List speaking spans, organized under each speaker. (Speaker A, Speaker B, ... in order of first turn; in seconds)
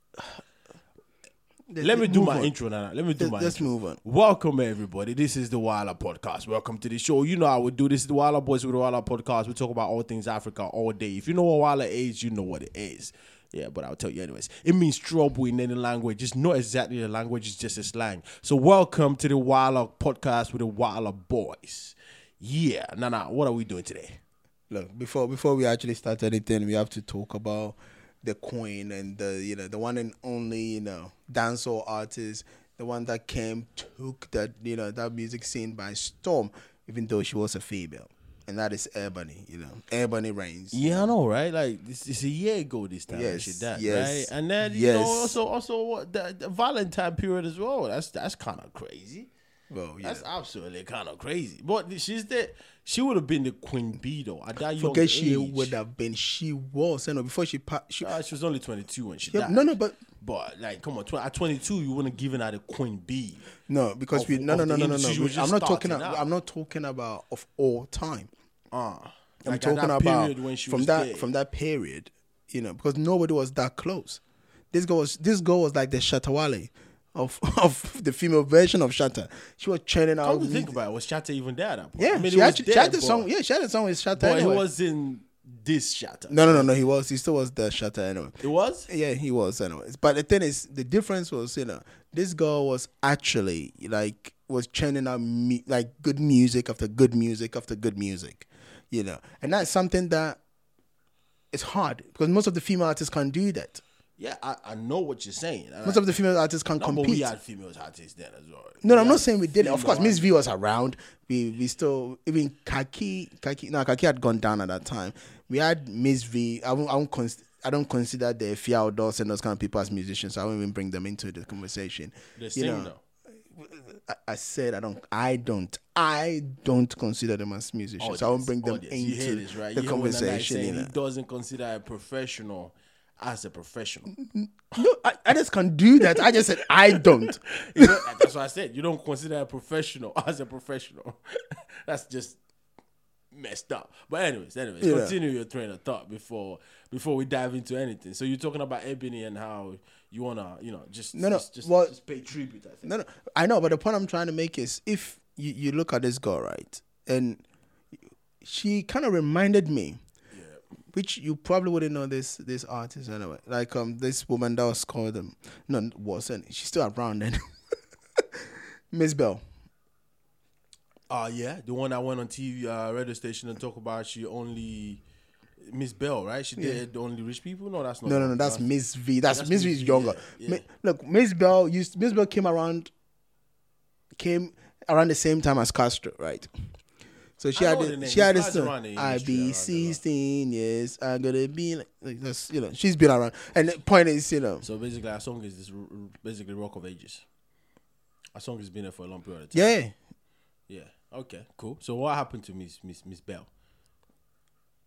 Speaker A: 1.7-2.5, 3.2-4.0, 24.7-41.1, 43.1-45.4, 49.7-50.2, 54.8-58.1, 59.3-60.0, 63.7-68.3, 69.4-74.2, 74.7-80.7, 82.0-84.6, 86.3-100.4, 101.5-103.8, 105.8-107.3, 108.8-122.9, 123.5-130.9, 134.2-138.0, 144.8-145.1, 151.1-151.9, 152.8-157.4, 158.4-160.0, 160.9-167.4, 168.2-169.4, 178.0-182.9, 184.2-186.5, 187.4-194.6, 199.5-199.9
Speaker B: 1.8-24.2, 40.7-49.3, 50.0-55.7, 58.0-63.5, 64.1-66.2, 68.7-71.3, 80.2-83.3, 84.1-86.7, 88.4-88.9, 104.2-106.1, 106.8-110.3, 122.4-123.0, 128.0-134.1, 136.0-142.4, 143.3-152.9, 160.3-160.6, 171.1-175.0, 175.6-178.7, 179.3-180.6, 187.5-190.0, 194.6-197.2, 198.3-199.7, 200.7-203.5